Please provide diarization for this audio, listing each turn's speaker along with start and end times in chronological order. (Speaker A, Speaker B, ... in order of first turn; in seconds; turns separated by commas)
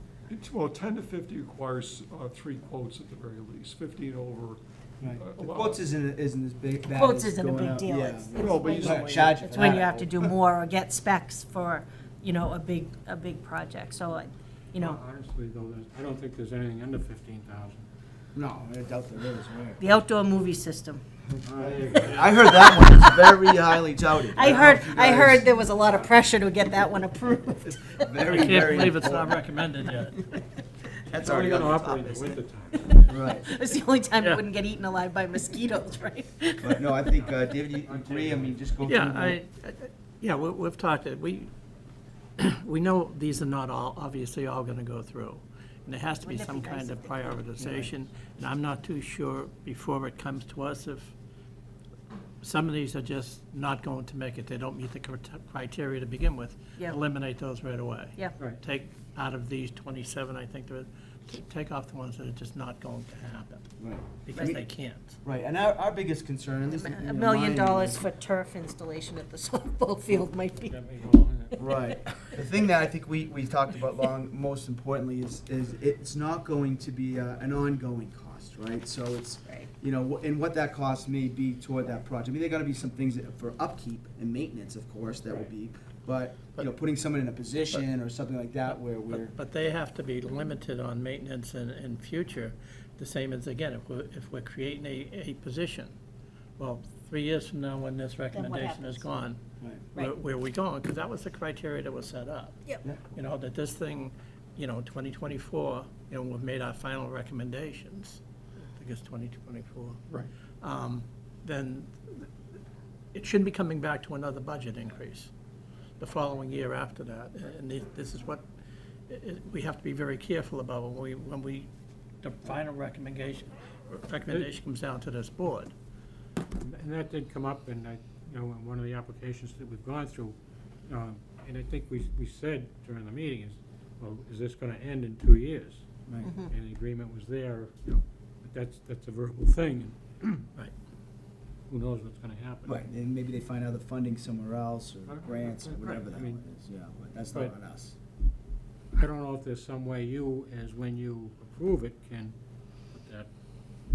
Speaker A: 0.3-5.8, Speaker B: 5.0-10.2, Speaker C: 6.9-15.0, Speaker A: 8.3-10.1, Speaker D: 14.8-17.9, Speaker B: 18.3-19.8, Speaker C: 19.8-21.0, Speaker B: 21.3-26.1, Speaker D: 21.4-22.2, Speaker C: 22.1-23.4, Speaker C: 24.2-27.9, Speaker B: 27.6-29.4, Speaker E: 28.2-30.2, Speaker B: 31.1-32.4, Speaker D: 31.2-33.0, Speaker C: 32.8-36.9, Speaker B: 33.0-33.5, Speaker B: 36.6-39.4, Speaker D: 37.8-38.7, Speaker E: 38.8-41.5, Speaker E: 42.4-51.1, Speaker C: 46.2-47.1, Speaker E: 52.4-63.7, Speaker B: 63.8-64.6, Speaker E: 64.2-65.1, Speaker B: 65.2-68.0, Speaker C: 66.7-72.4, Speaker D: 70.6-71.5, Speaker B: 71.6-89.3, Speaker E: 88.7-95.9, Speaker E: 96.6-99.4, Speaker C: 98.3-99.0, Speaker E: 99.9-102.6, Speaker E: 103.1-110.0, Speaker E: 110.6-112.3, Speaker E: 113.1-115.3, Speaker E: 116.0-118.4, Speaker E: 119.1-121.7, Speaker E: 122.2-125.7, Speaker D: 126.6-130.3, Speaker D: 130.9-140.0, Speaker B: 136.1-136.3, Speaker D: 141.7-142.8, Speaker B: 142.7-147.9, Speaker D: 145.1-146.4, Speaker D: 148.9-152.3, Speaker D: 152.9-153.3